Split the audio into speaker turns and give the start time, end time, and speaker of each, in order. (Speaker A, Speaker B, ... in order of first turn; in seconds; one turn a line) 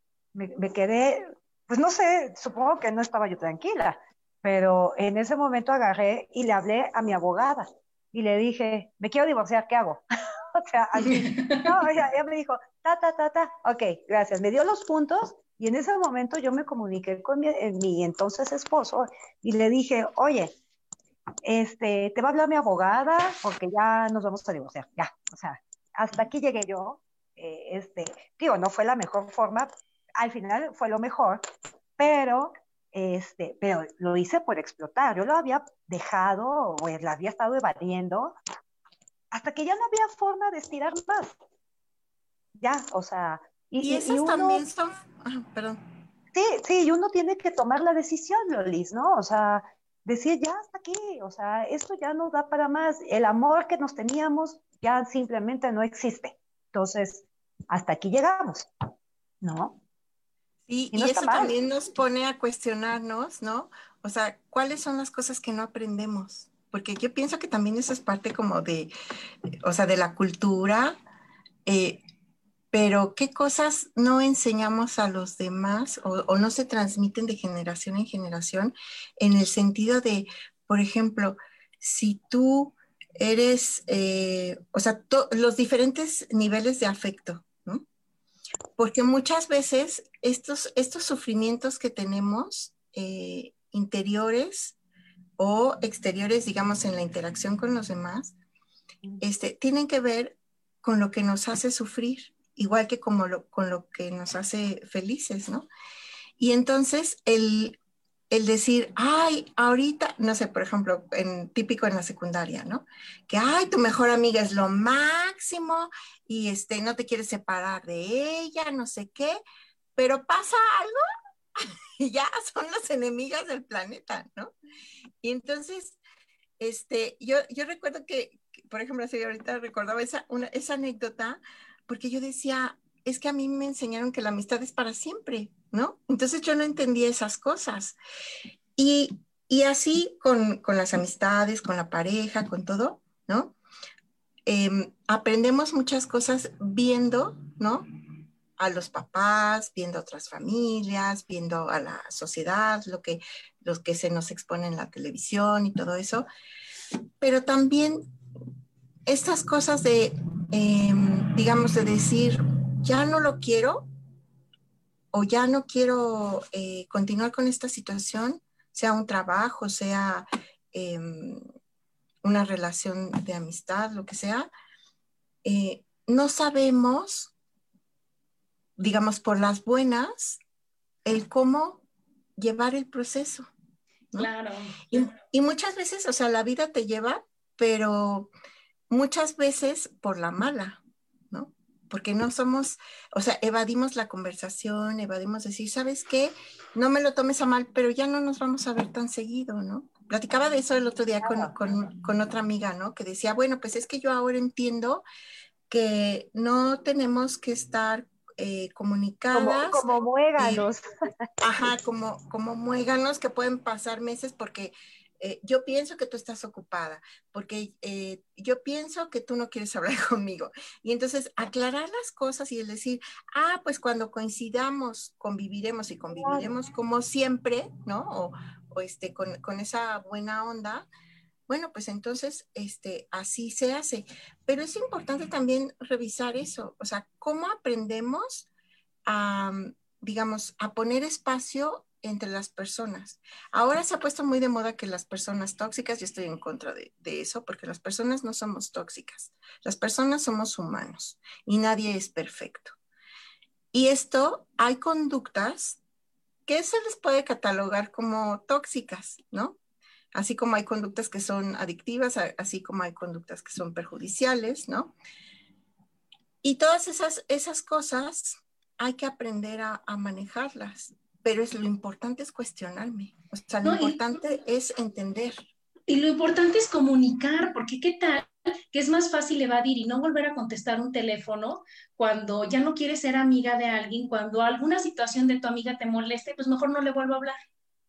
Speaker A: 0.3-20.5
Speaker B: 11.0-11.7
Speaker A: 21.4-31.4
Speaker A: 32.0-38.4
Speaker A: 39.3-41.4
Speaker A: 42.6-44.6
Speaker C: 43.8-45.8
Speaker A: 46.3-58.7
Speaker A: 59.4-59.8
Speaker C: 60.7-68.9
Speaker A: 60.9-61.5
Speaker C: 69.6-71.0
Speaker C: 71.7-72.0
Speaker C: 72.7-87.8
Speaker C: 88.8-94.8
Speaker C: 95.4-98.3
Speaker C: 99.2-105.7
Speaker C: 106.4-107.8
Speaker C: 108.3-119.4
Speaker C: 120.0-121.0
Speaker C: 121.5-124.5
Speaker C: 125.2-126.0
Speaker C: 126.6-138.0
Speaker C: 138.8-143.5
Speaker C: 144.4-147.8
Speaker C: 148.6-156.3
Speaker C: 157.2-158.0
Speaker C: 159.1-163.9
Speaker C: 165.1-171.4
Speaker C: 172.2-174.5
Speaker C: 175.4-177.3
Speaker C: 178.8-180.4
Speaker C: 181.0-181.8
Speaker C: 182.4-183.5
Speaker B: 184.2-185.1
Speaker C: 184.9-188.3
Speaker C: 188.9-190.8
Speaker C: 191.3-205.0
Speaker A: 201.2-201.5
Speaker C: 205.7-210.6
Speaker A: 209.3-210.9
Speaker C: 211.4-230.9
Speaker A: 226.1-226.5
Speaker C: 231.5-238.5
Speaker C: 239.1-252.7
Speaker C: 253.7-255.8
Speaker C: 256.5-259.6
Speaker C: 260.1-264.9
Speaker C: 266.4-275.4
Speaker B: 273.6-274.0
Speaker B: 275.9-287.4